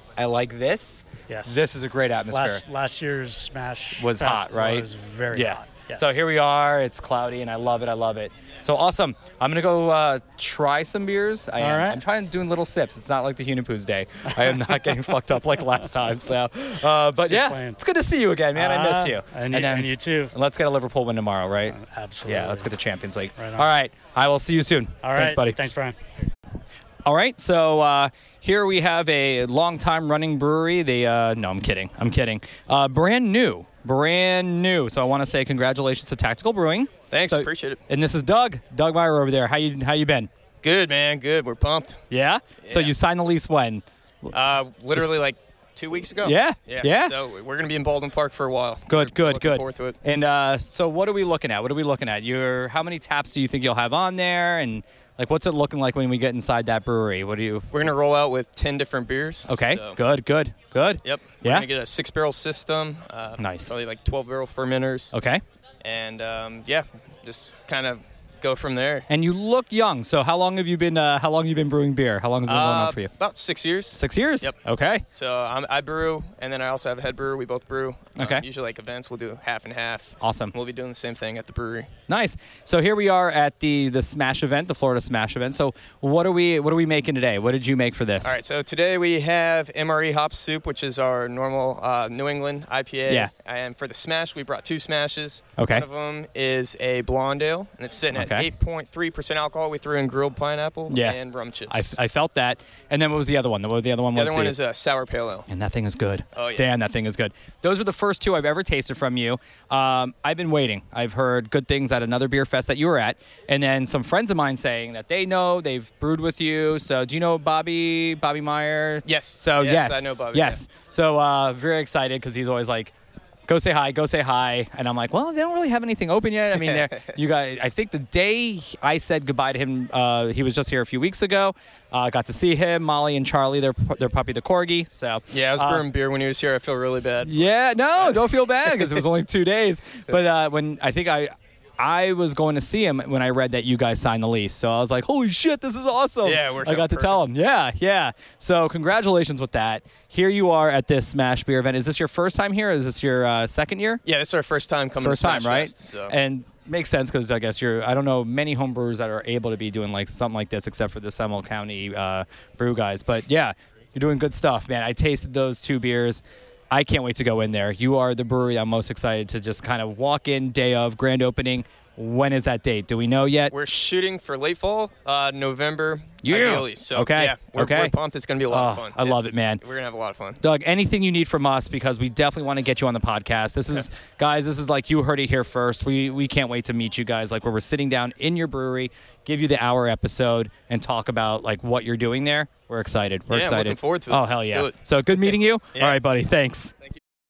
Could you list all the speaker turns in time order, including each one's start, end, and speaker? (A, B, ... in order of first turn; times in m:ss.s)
0:00.2-0:02.6 A
0:01.3-0:01.7 B
0:02.3-0:06.2 B
0:04.0-0:25.6 A
0:11.6-0:12.0 B
0:14.3-0:14.9 B
0:17.1-0:17.8 B
0:18.5-0:20.3 B
0:21.7-0:22.7 B
0:23.4-0:23.7 B
0:25.0-0:25.9 B
0:27.0-0:40.3 A
0:37.1-0:37.8 C
0:40.6-0:42.0 C
0:42.1-0:44.3 A
0:42.6-0:42.9 C
0:44.3-0:50.0 C
0:46.2-0:47.1 A
0:48.9-0:57.7 A
0:57.7-1:00.0 C
0:59.5-1:01.7 A
1:01.0-1:05.2 C
1:03.4-1:03.7 A
1:05.1-1:05.4 A
1:05.8-1:09.1 C
1:09.1-1:13.1 A
1:12.4-1:14.6 C
1:13.9-1:15.0 A
1:15.1-1:22.0 C
1:18.2-1:18.4 A
1:20.2-1:20.5 A
1:22.1-1:28.4 A
1:28.2-1:41.9 C
1:35.6-1:35.8 A
1:38.1-1:38.5 A
1:40.9-1:44.5 A
1:44.1-1:45.5 C
1:45.5-2:02.9 A
1:46.3-1:46.7 C
1:59.0-2:00.6 C
2:03.5-2:15.8 A
2:06.5-2:07.1 C
2:15.3-2:19.0 C
2:17.2-2:34.0 A
2:26.2-2:27.2 C
2:34.0-2:36.2 C
2:35.0-2:53.5 A
2:53.5-3:00.4 C
2:56.2-2:57.9 A
2:58.5-2:59.6 A
3:00.4-3:16.7 A
3:13.3-3:16.0 C